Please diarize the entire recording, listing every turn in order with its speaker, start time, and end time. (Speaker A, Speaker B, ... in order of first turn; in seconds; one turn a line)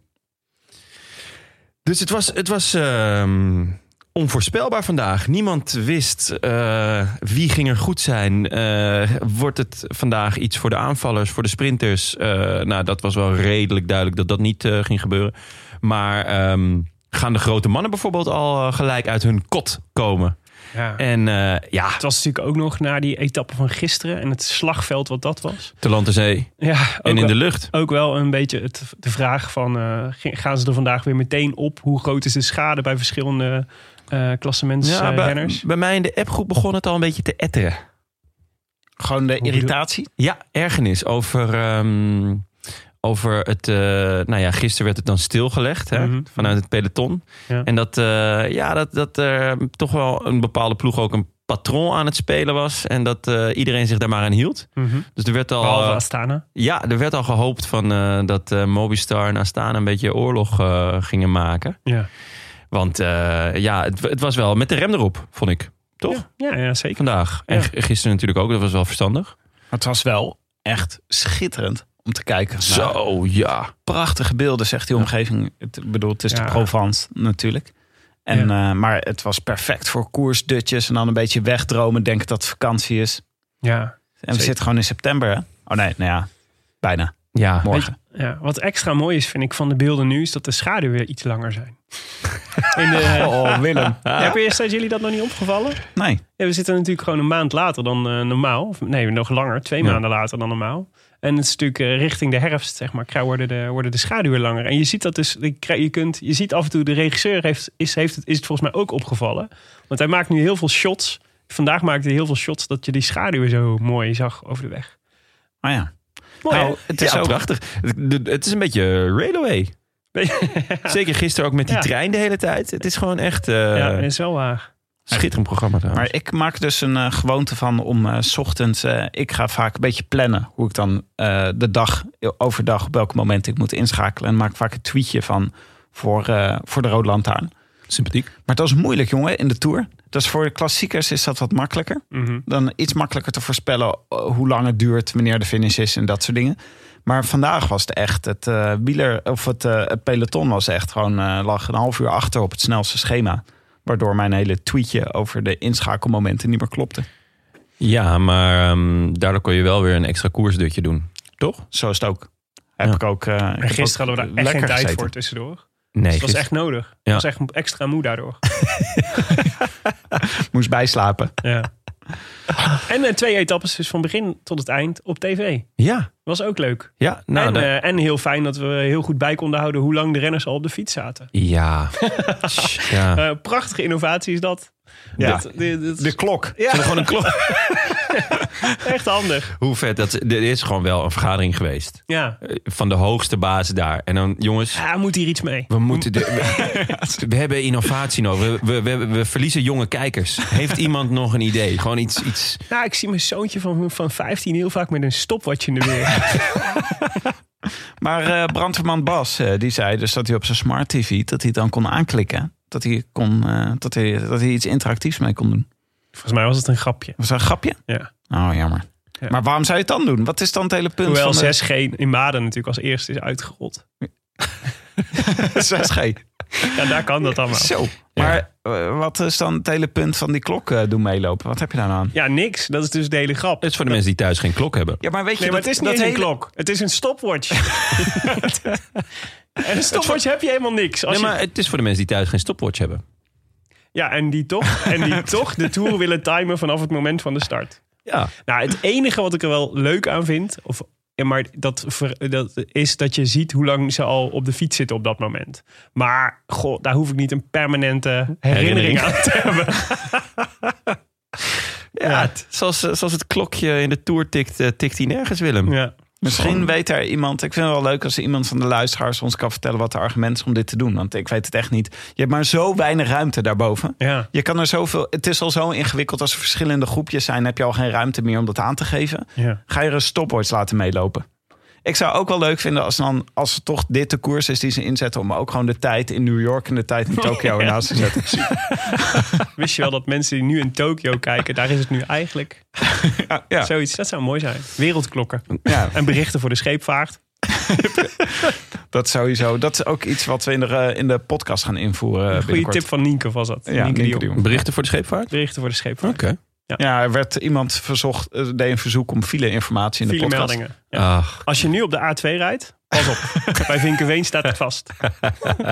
Speaker A: 1.8-20.4
Speaker B: 20.7-21.0
Speaker A: 21.0-22.0
Speaker B: 22.0-25.7
Speaker A: 25.8-27.7
Speaker B: 26.6-35.6
Speaker A: 34.8-37.8
Speaker C: 39.0-40.1
Speaker B: 39.4-39.7
Speaker A: 40.2-42.5
Speaker A: 43.0-56.0
Speaker B: 45.9-46.5
Speaker B: 54.8-55.1
Speaker B: 55.6-56.4
Speaker A: 56.5-61.8
Speaker A: 62.7-66.2
Speaker B: 66.1-67.7
Speaker A: 67.0-69.3
Speaker C: 69.7-73.0
Speaker A: 72.7-73.7
Speaker C: 73.8-77.7
Speaker B: 76.3-76.6
Speaker C: 78.2-83.2
Speaker B: 83.6-84.5
Speaker C: 84.2-86.3
Speaker C: 86.8-87.9
Speaker A: 87.3-87.7
Speaker B: 87.7-93.3
Speaker C: 93.0-94.3
Speaker B: 94.1-95.8
Speaker C: 95.9-96.2
Speaker B: 96.4-114.9
Speaker C: 115.6-115.9
Speaker B: 116.4-116.8
Speaker C: 116.4-117.4
Speaker A: 116.5-119.7
Speaker B: 120.1-120.9
Speaker A: 120.9-124.1
Speaker B: 123.7-124.7
Speaker A: 125.1-126.1
Speaker C: 125.9-137.5
Speaker A: 137.9-138.3
Speaker C: 138.4-157.1
Speaker B: 142.1-142.4
Speaker A: 157.8-161.6
Speaker C: 161.5-165.1
Speaker B: 163.6-168.4
Speaker A: 165.9-167.2
Speaker A: 168.8-169.1
Speaker C: 170.5-171.3
Speaker B: 171.4-171.7
Speaker B: 172.8-175.7
Speaker A: 175.8-176.1
Speaker B: 176.2-181.3
Speaker A: 177.0-177.7
Speaker A: 181.3-183.2
Speaker B: 182.0-187.1
Speaker A: 185.2-185.4
Speaker C: 185.2-186.6
Speaker A: 186.7-187.8
Speaker B: 188.1-189.5
Speaker A: 189.6-194.8
Speaker B: 192.1-192.4
Speaker B: 194.7-196.1
Speaker A: 195.7-202.6
Speaker C: 196.3-197.3
Speaker B: 202.7-206.5
Speaker C: 208.0-215.7
Speaker B: 216.2-217.2
Speaker C: 217.2-221.6
Speaker B: 221.0-223.8
Speaker C: 225.1-226.8
Speaker B: 226.7-227.7
Speaker C: 227.4-232.1
Speaker A: 228.1-228.4
Speaker B: 232.1-233.7
Speaker A: 233.6-235.0
Speaker C: 235.0-236.3
Speaker B: 235.4-238.6
Speaker B: 239.6-241.3
Speaker A: 241.1-243.0
Speaker B: 243.9-247.8
Speaker A: 248.1-248.3
Speaker B: 248.5-260.2
Speaker A: 258.5-259.3
Speaker A: 261.9-266.6
Speaker B: 262.0-262.3
Speaker B: 265.7-265.9
Speaker C: 266.2-281.2
Speaker B: 274.0-274.3
Speaker C: 281.8-289.2
Speaker B: 289.5-292.7
Speaker C: 293.0-293.7
Speaker B: 293.6-297.2
Speaker C: 295.6-295.9
Speaker C: 297.5-302.9
Speaker B: 302.3-304.3
Speaker C: 303.7-304.5
Speaker A: 304.3-305.3
Speaker B: 305.3-306.8
Speaker A: 306.0-306.4
Speaker C: 306.8-310.6
Speaker B: 310.1-315.0
Speaker A: 310.9-311.4